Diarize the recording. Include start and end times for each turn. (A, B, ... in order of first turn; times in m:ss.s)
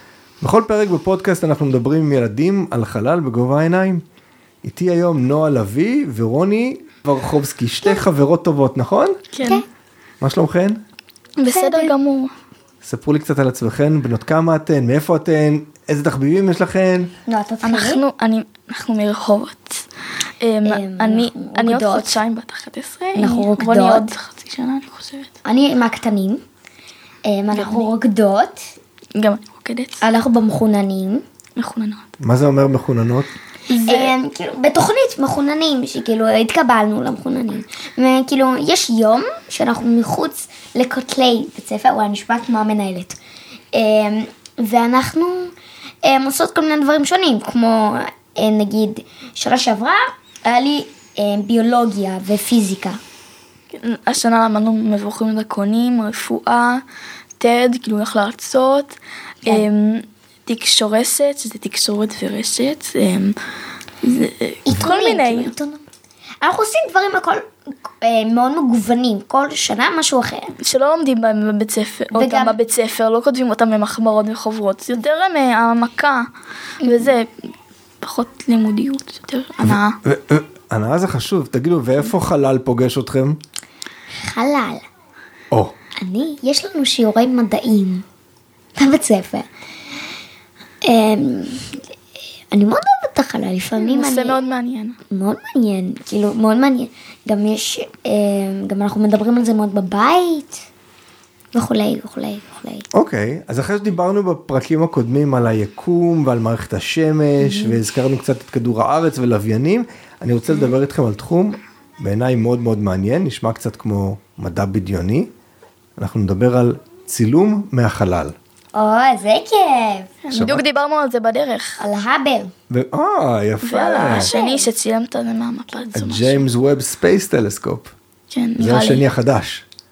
0:00.4-0:04.0 A
0:04.6-0:09.2 A
0:09.3-0:09.6 B
0:10.2-0:10.8 A
0:11.4-0:12.3 B
0:11.5-0:11.9 C
0:12.8-0:17.1 A
0:17.3-0:18.0 C
0:17.6-0:19.8 B
0:20.4-0:25.3 B
0:20.6-0:22.2 C
0:23.2-0:24.1 C
0:25.4-0:26.4 C
0:27.2-0:28.7 C
0:27.5-0:27.9 B
0:29.2-0:30.0 B
0:30.0-0:31.2 C
0:31.6-0:32.1 B
0:32.2-0:33.3 A
0:33.7-0:34.1 B
0:33.8-0:43.2 C
0:43.7-0:53.0 C
0:53.7-0:56.8 B
0:57.4-1:03.4 B
1:04.0-1:05.5 B
1:04.7-1:05.8 C
1:06.4-1:10.6 C
1:10.6-1:16.3 B
1:12.1-1:12.6 C
1:16.8-1:17.5 B
1:16.8-1:17.1 C
1:18.0-1:20.0 B
1:19.6-1:23.4 A
1:24.1-1:24.9 C
1:26.0-1:28.1 C
1:28.8-1:29.5 C
1:30.8-1:31.9 C
1:32.5-1:34.4 C
1:33.8-1:35.0 B
1:35.1-1:40.6 C
1:41.5-1:42.9 C
1:42.9-1:55.3 A
1:47.4-1:47.8 C
1:56.0-1:58.4 A
1:58.8-2:00.1 C
2:00.2-2:01.8 B
2:00.3-2:00.6 A
2:01.8-2:02.5 C
2:02.7-2:04.3 A
2:03.6-2:06.4 B
2:04.1-2:04.7 C
2:05.9-2:07.9 A
2:08.3-2:09.0 B
2:08.6-2:09.6 A